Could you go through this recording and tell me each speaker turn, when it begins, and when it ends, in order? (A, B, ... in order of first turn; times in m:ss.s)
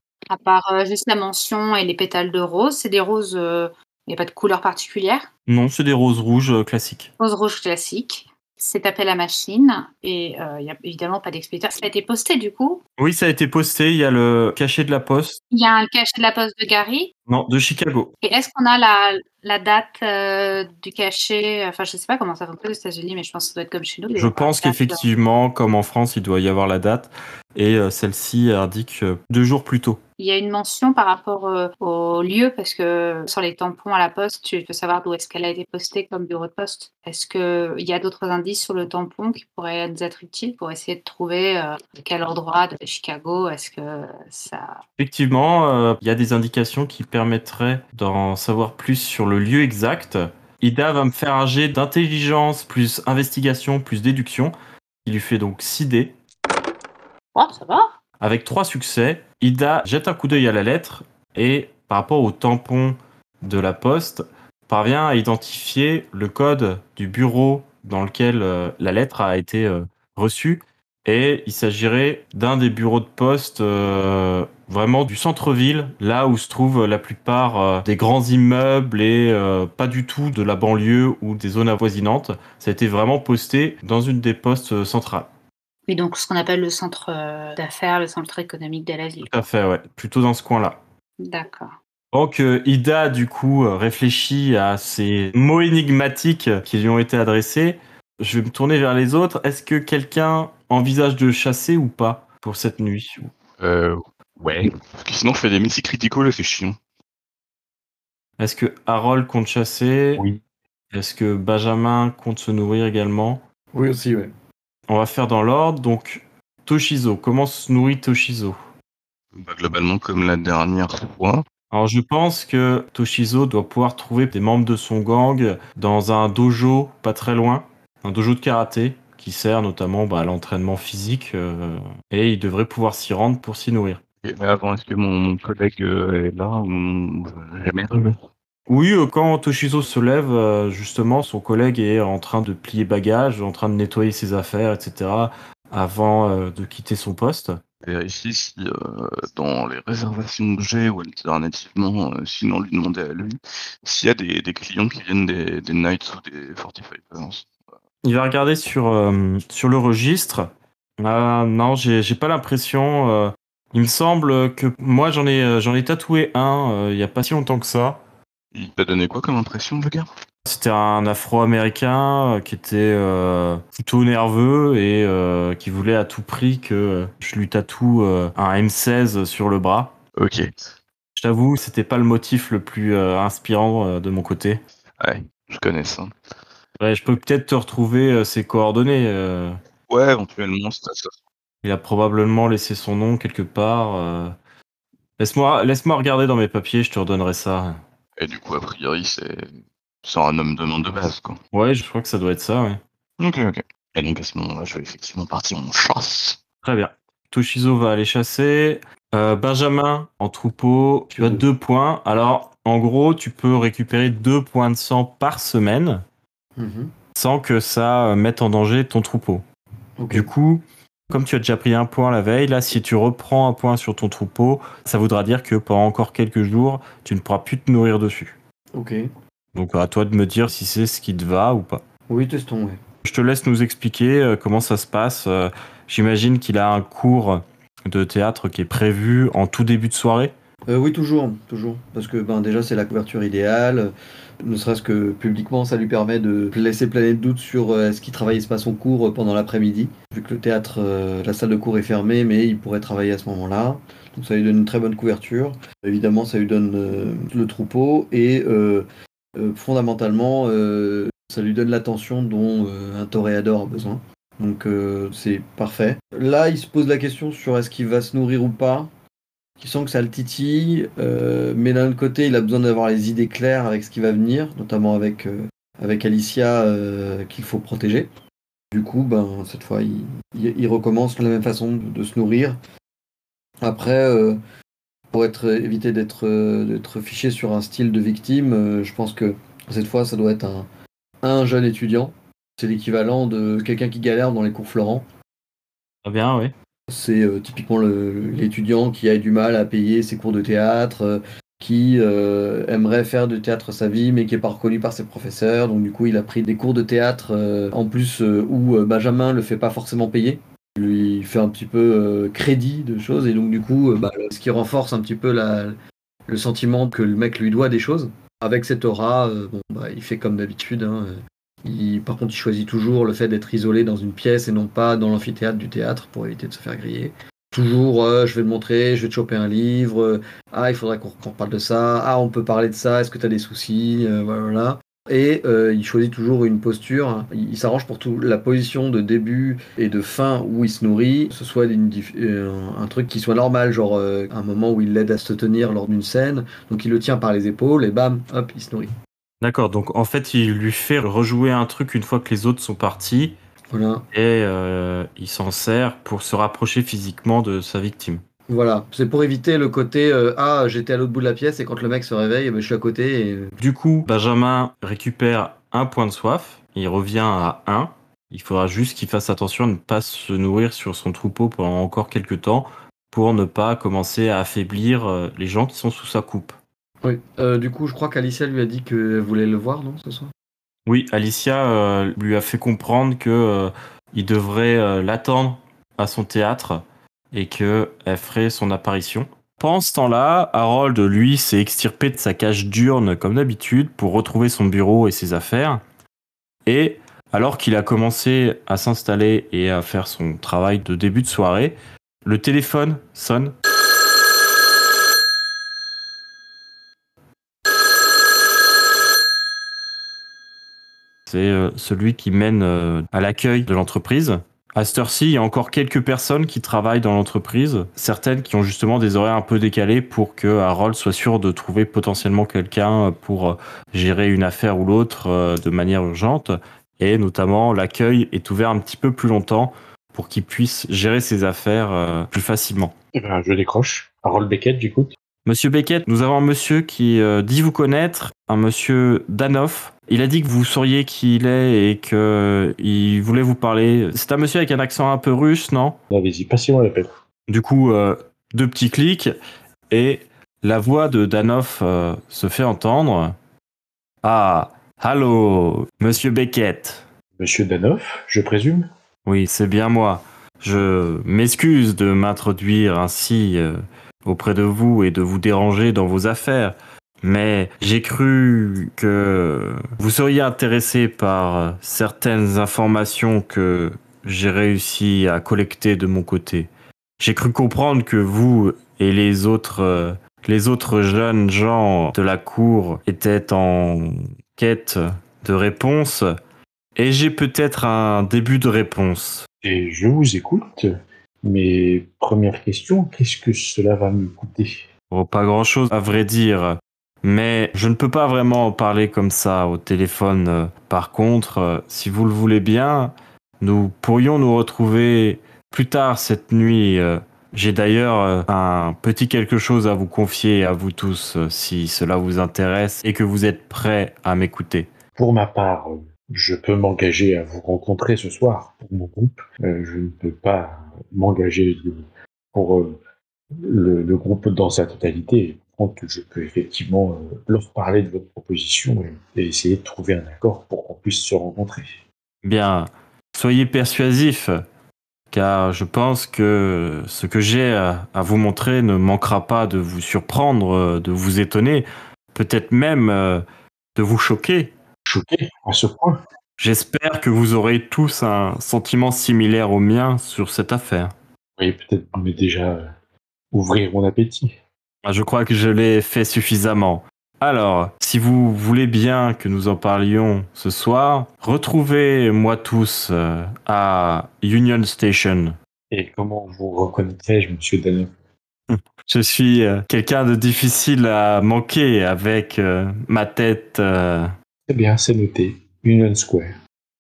0:00.3-0:05.3 A
0:05.5-0:07.1 B
0:07.2-0:12.8 A
0:13.0-0:15.4 B
0:15.5-0:17.1 A
0:17.3-0:18.1 B
0:18.2-0:25.1 A
0:24.2-0:30.0 B
0:30.2-0:44.8 A
0:45.0-0:56.2 B
0:57.3-0:57.9 A
0:58.2-1:25.3 B
1:25.9-1:29.3 A
1:29.3-1:30.8 B
1:31.2-1:31.8 A
1:32.1-1:43.3 B
1:43.6-1:46.8 C
1:48.4-1:50.2 B
1:50.9-1:53.4 B
1:53.7-1:54.3 D
1:54.9-1:58.6 B
1:59.3-2:01.4 C
2:01.7-2:14.0 B
2:14.2-2:18.2 C
2:18.7-2:27.6 B
2:27.8-2:37.5 C
2:38.0-2:40.5 B
2:41.0-2:48.0 B
2:48.5-2:50.1 C
2:50.4-2:59.9 B
3:00.2-3:00.5 C
3:01.2-3:04.6 B
3:05.0-3:06.1 C
3:06.8-3:09.6 B
3:09.9-3:11.1 C
3:11.6-3:14.4 B
3:15.2-3:17.8 B
3:18.2-3:19.5 C
3:20.0-3:21.4 C
3:21.5-3:22.8 B
3:23.2-3:26.4 C
3:26.6-3:36.0 B
3:31.1-3:31.4 D
3:36.6-3:36.9 D
3:37.2-3:39.4 B
3:40.0-3:40.3 D
3:40.1-3:48.3 B
3:48.7-3:49.1 D
3:49.6-3:51.8 B
3:52.1-3:52.8 D
3:53.0-4:00.3 B
4:00.7-4:28.9 D
4:29.6-4:38.1 D
4:38.7-4:42.6 D
4:43.6-4:44.4 D
4:45.1-4:50.7 D
4:51.2-4:55.0 D
4:56.0-4:56.5 B
4:56.9-5:48.9 D
5:49.4-5:53.4 B
5:53.7-5:54.0 D
5:54.1-5:58.2 B
5:58.5-6:03.6 D
6:03.6-6:16.6 B
6:17.0-6:20.3 D
6:20.8-6:35.8 B
6:36.7-6:43.6 B
6:51.3-7:12.9 B
7:13.2-7:15.1 E
7:15.4-7:26.0 B
7:26.1-7:27.1 E
7:27.5-7:29.3 B
7:29.9-7:33.3 B
7:34.2-7:37.0 B
7:37.4-7:38.9 E
7:39.2-8:06.2 B
8:07.0-8:09.5 B
8:09.6-8:14.9 E
8:15.1-8:34.9 B
8:35.2-8:43.0 E
8:43.6-8:52.0 E
8:52.4-8:54.5 B
8:55.3-9:03.4 B
9:04.0-9:04.7 B
9:05.1-9:06.2 E
9:06.6-9:11.1 B
9:11.6-9:12.9 E
9:13.5-9:14.6 E
9:15.0-9:25.6 B
9:25.9-9:28.1 E
9:28.7-9:34.3 B
9:34.7-9:36.5 E